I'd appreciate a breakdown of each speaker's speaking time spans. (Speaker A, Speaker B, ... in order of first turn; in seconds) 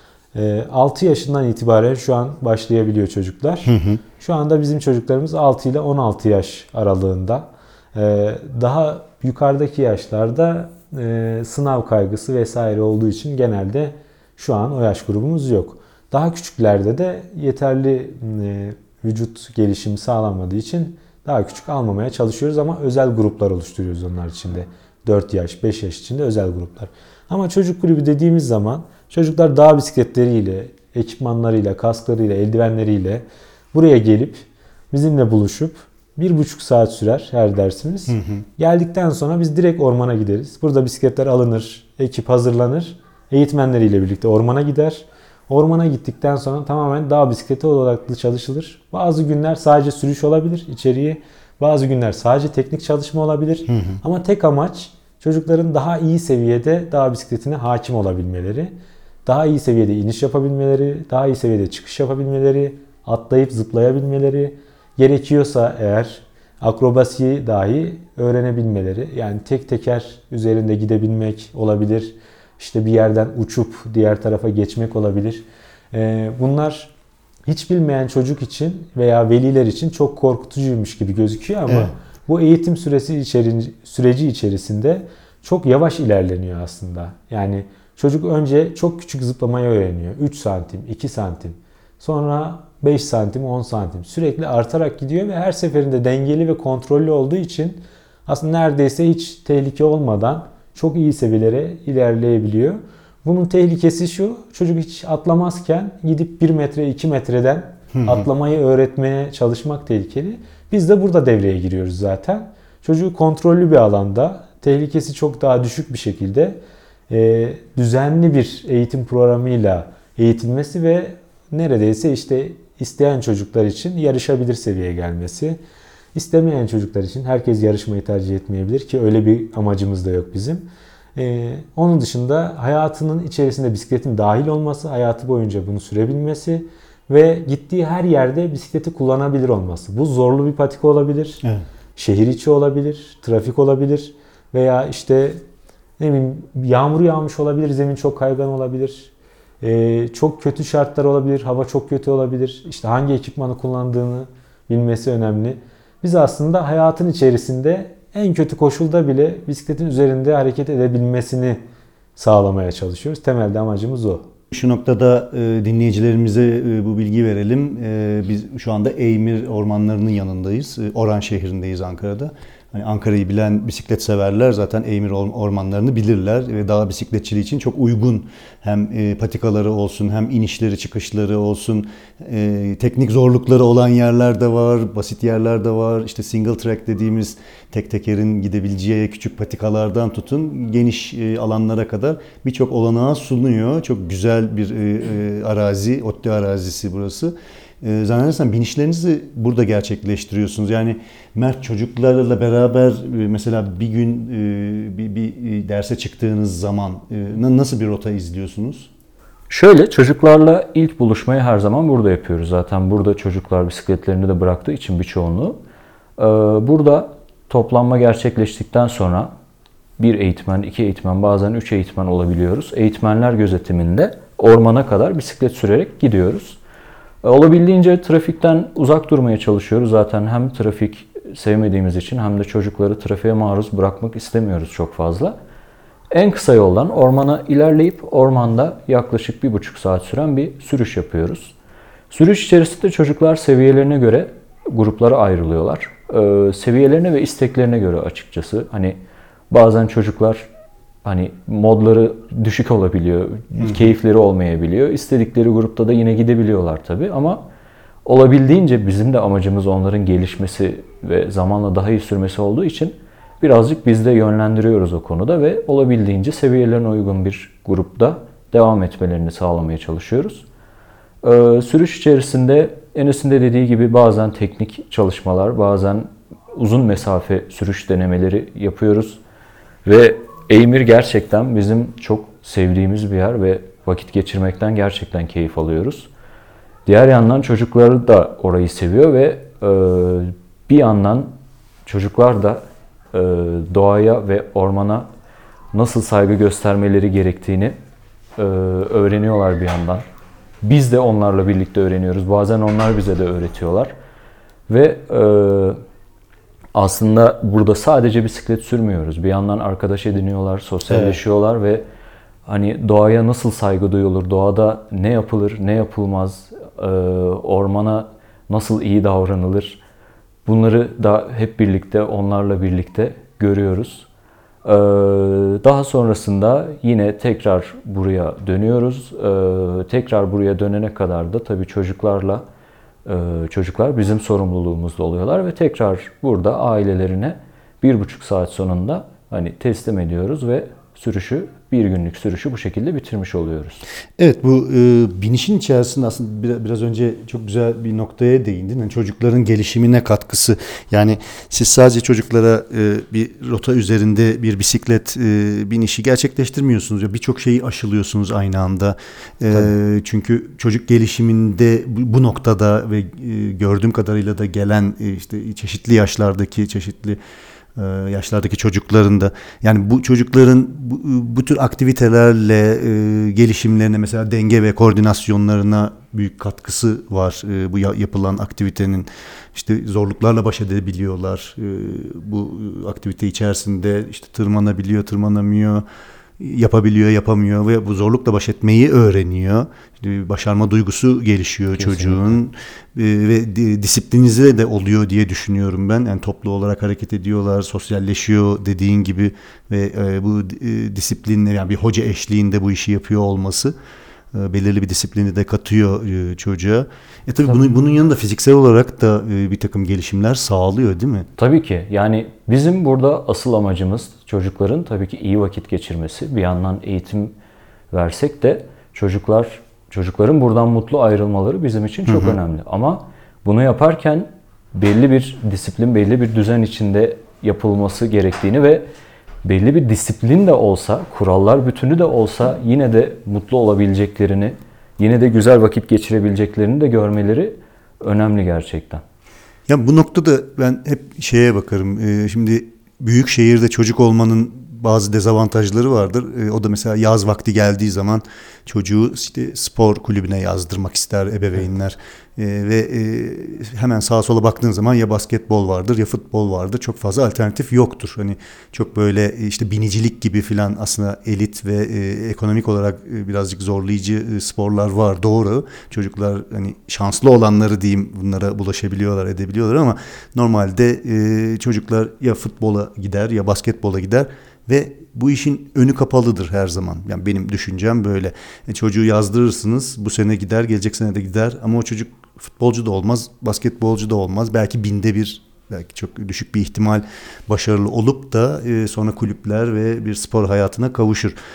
Speaker A: 0.3-76.9, 77.5-125.6, 126.1-141.4, 142.0-145.4, 146.0-161.6, 162.2-164.3
Speaker B: 3.6-4.0, 38.1-38.4, 53.7-54.0, 81.7-81.9, 107.9-108.3, 164.5-208.9, 253.6-253.9, 310.9-311.2, 344.2-367.2, 367.8-385.8, 386.4-403.8, 404.3-411.3, 422.1-422.4, 439.7-491.4
Speaker C: 209.5-215.6, 216.2-219.3, 220.0-226.6, 227.2-235.4, 236.1-241.5, 242.1-249.0, 249.5-250.5, 251.0-257.4, 258.0-270.4, 271.2-279.2, 279.9-286.1, 286.9-291.4, 291.9-295.1, 295.7-297.8, 298.4-300.1, 300.6-303.9, 304.7-305.8, 306.8-311.9, 312.5-319.8, 320.5-324.1, 324.6-332.4, 333.1-343.8, 391.8-392.4, 407.5-407.8, 411.4-417.3, 417.9-428.9, 429.4-439.0